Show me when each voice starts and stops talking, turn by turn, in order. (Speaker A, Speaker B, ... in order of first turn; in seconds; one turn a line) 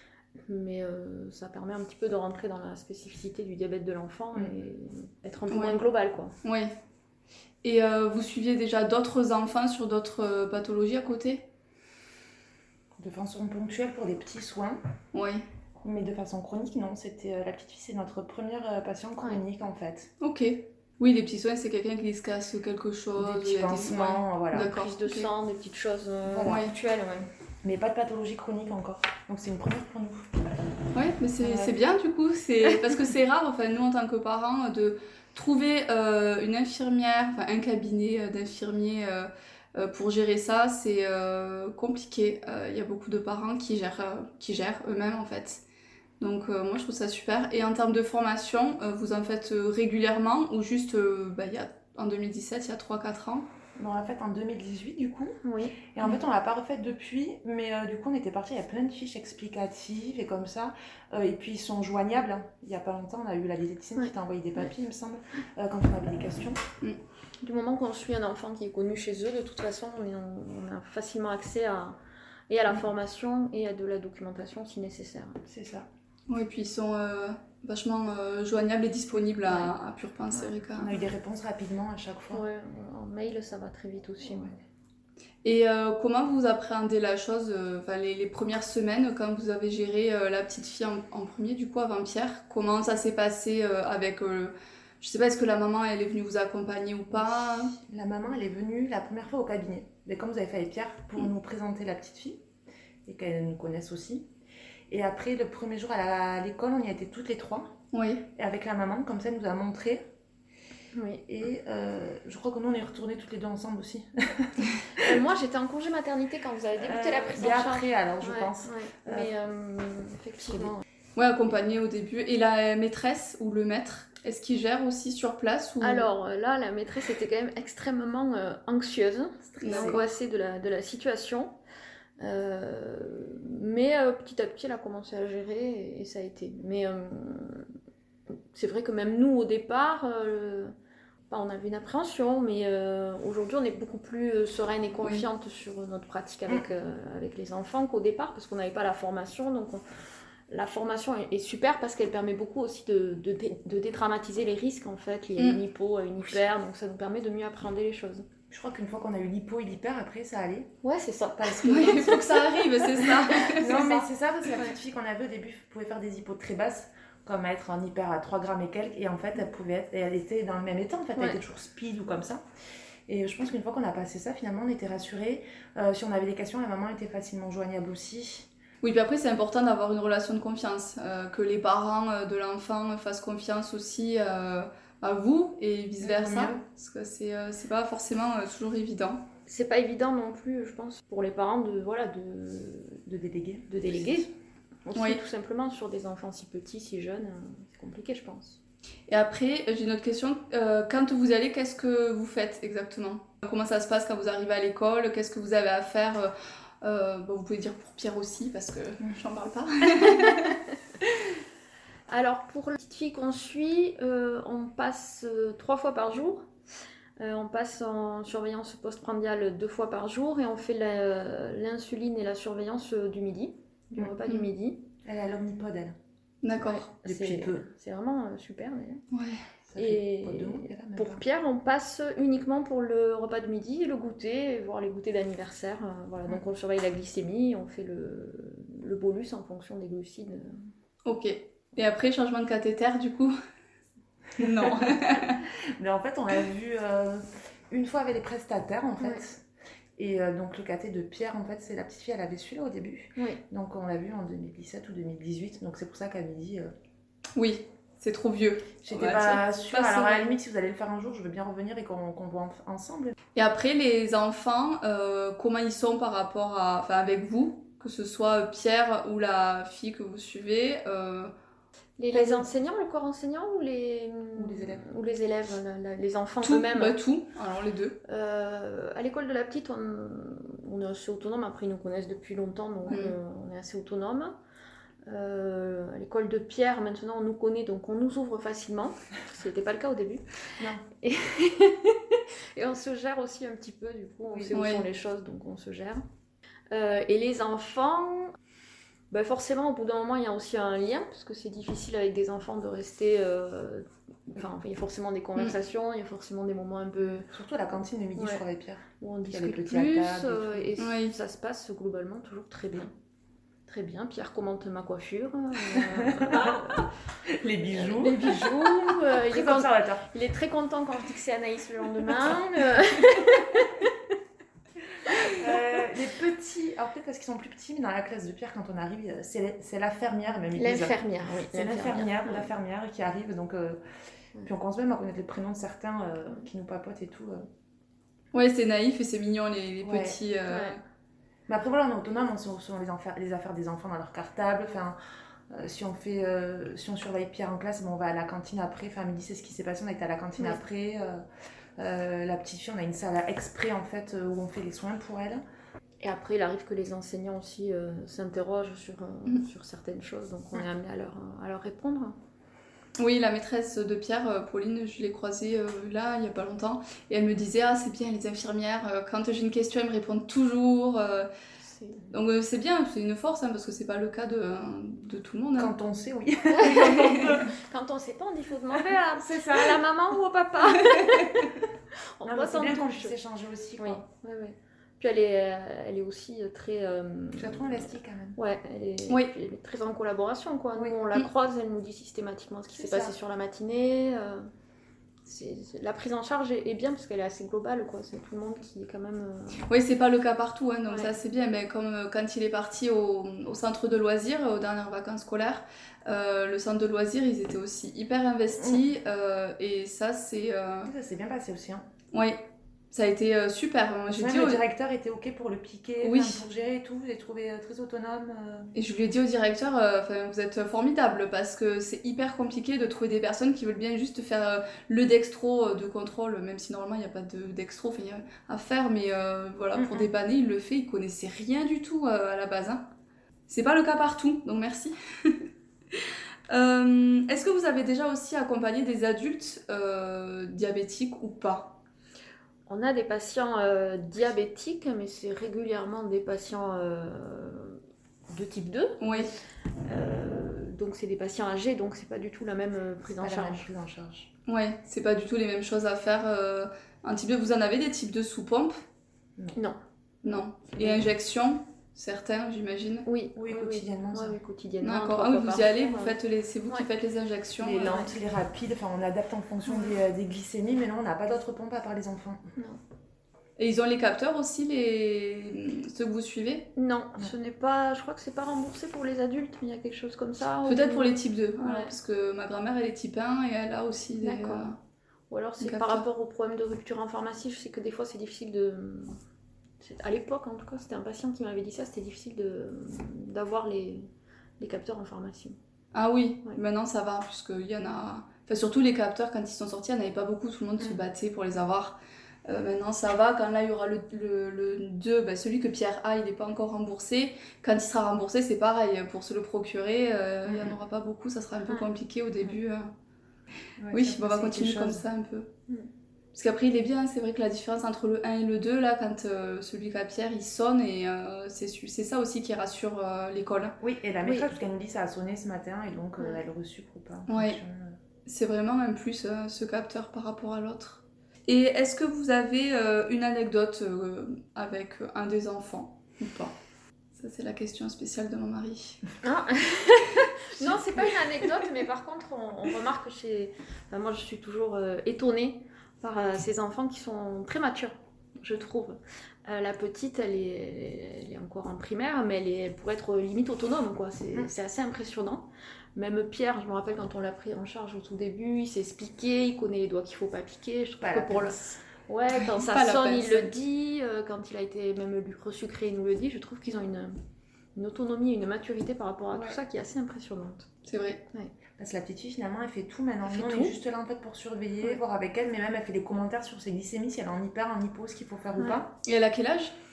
Speaker A: 0.5-6.3
Speaker B: 4.3-4.6
Speaker C: 5.5-5.8
Speaker C: 6.4-6.7
Speaker C: 7.6-11.4
Speaker B: 13.0-14.8
Speaker C: 15.1-15.4
Speaker B: 15.8-20.1
Speaker C: 20.2-25.3
Speaker B: 23.2-24.7
Speaker A: 24.6-27.3
Speaker B: 26.2-26.7
Speaker C: 26.5-26.7
Speaker B: 27.6-30.3
Speaker C: 30.9-45.6
Speaker B: 31.4-31.7
Speaker C: 46.2-53.5
Speaker B: 53.8-55.4
Speaker A: 55.4-55.8
Speaker B: 55.9-66.6
Speaker A: 64.0-64.7
Speaker A: 67.4-72.0
Speaker A: 72.5-75.4
Speaker B: 75.4-75.9
Speaker C: 76.3-81.0
Speaker B: 80.8-82.4
Speaker A: 82.3-84.5
Speaker B: 84.2-84.5
Speaker C: 85.4-97.8
Speaker B: 97.3-102.4
Speaker B: 103.1-104.3
Speaker B: 104.9-107.7
Speaker C: 107.9-108.3
Speaker B: 108.3-110.0
Speaker A: 110.9-111.2
Speaker B: 111.2-115.2
Speaker A: 115.0-120.8
Speaker B: 116.8-119.3
Speaker B: 120.5-120.7
Speaker C: 121.2-126.1
Speaker A: 125.8-131.6
Speaker B: 129.4-130.0
Speaker C: 129.6-130.0
Speaker A: 132.2-137.7
Speaker A: 138.5-140.7
Speaker A: 141.3-149.8
Speaker A: 150.5-158.2
Speaker B: 158.5-160.7
Speaker A: 160.8-164.7
Speaker B: 161.3-162.2
Speaker C: 161.6-163.7
Speaker B: 163.5-172.4
Speaker B: 173.1-178.5
Speaker C: 178.8-189.2
Speaker B: 186.0-186.6
Speaker A: 189.4-193.1
Speaker B: 193.1-194.3
Speaker A: 193.7-194.3
Speaker A: 194.8-198.6
Speaker C: 194.9-195.2
Speaker C: 199.1-210.6
Speaker A: 210.0-210.5
Speaker A: 212.1-216.5
Speaker A: 217.2-224.8
Speaker B: 225.0-225.9
Speaker C: 226.4-226.9
Speaker A: 226.6-229.0
Speaker B: 227.0-227.7
Speaker C: 229.1-229.4
Speaker B: 229.7-231.2
Speaker A: 229.8-240.6
Speaker C: 241.0-243.3
Speaker C: 244.4-245.4
Speaker B: 245.8-249.4
Speaker B: 250.0-256.7
Speaker A: 253.2-253.4
Speaker C: 257.4-260.3
Speaker B: 258.8-263.1
Speaker C: 263.3-271.3
Speaker A: 272.0-277.0
Speaker B: 272.1-272.5
Speaker B: 274.4-274.9
Speaker C: 276.4-278.0
Speaker A: 278.0-284.4
Speaker C: 282.9-283.1
Speaker A: 285.1-290.2
Speaker B: 290.6-290.8
Speaker A: 291.0-296.0
Speaker C: 294.5-294.8
Speaker A: 296.7-298.3
Speaker A: 299.1-307.3
Speaker B: 307.3-310.8
Speaker A: 308.2-308.4
Speaker A: 309.0-312.9
Speaker C: 310.8-311.1
Speaker A: 313.7-316.9
Speaker B: 315.8-320.1
Speaker A: 317.7-323.9
Speaker B: 322.0-322.7
Speaker A: 325.1-325.4
Speaker B: 325.2-333.8
Speaker A: 330.5-332.5
Speaker B: 334.4-337.4
Speaker C: 338.3-340.8
Speaker B: 339.8-340.2
Speaker A: 340.5-340.8
Speaker B: 341.5-345.0
Speaker B: 345.5-351.2
Speaker B: 351.8-355.4
Speaker A: 356.0-362.1
Speaker C: 363.0-371.3
Speaker A: 371.6-372.1
Speaker C: 372.1-375.7
Speaker B: 375.6-377.6
Speaker A: 376.5-381.5
Speaker B: 379.1-379.8
Speaker C: 381.0-381.4
Speaker A: 382.2-383.2
Speaker B: 382.2-384.0
Speaker A: 383.8-394.4
Speaker B: 387.4-388.4
Speaker B: 392.7-393.1
Speaker A: 395.2-399.6
Speaker C: 399.7-410.9
Speaker A: 400.9-401.1
Speaker B: 410.8-411.8
Speaker C: 412.1-412.4
Speaker C: 412.9-414.6
Speaker B: 414.1-418.7
Speaker C: 416.0-416.4
Speaker C: 418.7-432.8
Speaker B: 429.7-430.1
Speaker C: 433.5-441.8
Speaker A: 442.7-449.3
Speaker C: 449.0-449.3
Speaker A: 449.9-453.7
Speaker B: 453.2-454.3
Speaker C: 454.5-458.8
Speaker C: 460.2-463.0
Speaker A: 460.8-461.1
Speaker A: 463.0-466.9
Speaker B: 463.3-464.4
Speaker C: 464.8-468.0
Speaker B: 467.6-472.4
Speaker A: 467.8-468.1
Speaker C: 473.6-476.7
Speaker A: 476.7-481.9
Speaker C: 480.6-484.8
Speaker A: 484.2-484.7
Speaker A: 485.3-489.1
Speaker C: 485.6-486.0
Speaker A: 489.8-494.1
Speaker A: 494.6-495.6
Speaker C: 495.9-512.9
Speaker B: 510.4-510.8
Speaker B: 513.8-515.0
Speaker C: 513.9-515.5
Speaker C: 516.3-523.8
Speaker B: 523.8-528.0
Speaker C: 527.3-527.6
Speaker C: 528.2-536.5
Speaker C: 537.2-539.0
Speaker A: 539.2-567.2
Speaker B: 561.0-561.8
Speaker C: 562.3-563.5
Speaker A: 567.8-570.7
Speaker B: 569.3-569.6
Speaker C: 570.9-571.2
Speaker B: 571.8-578.9
Speaker A: 573.2-573.8
Speaker A: 578.6-578.9
Speaker C: 579.0-579.8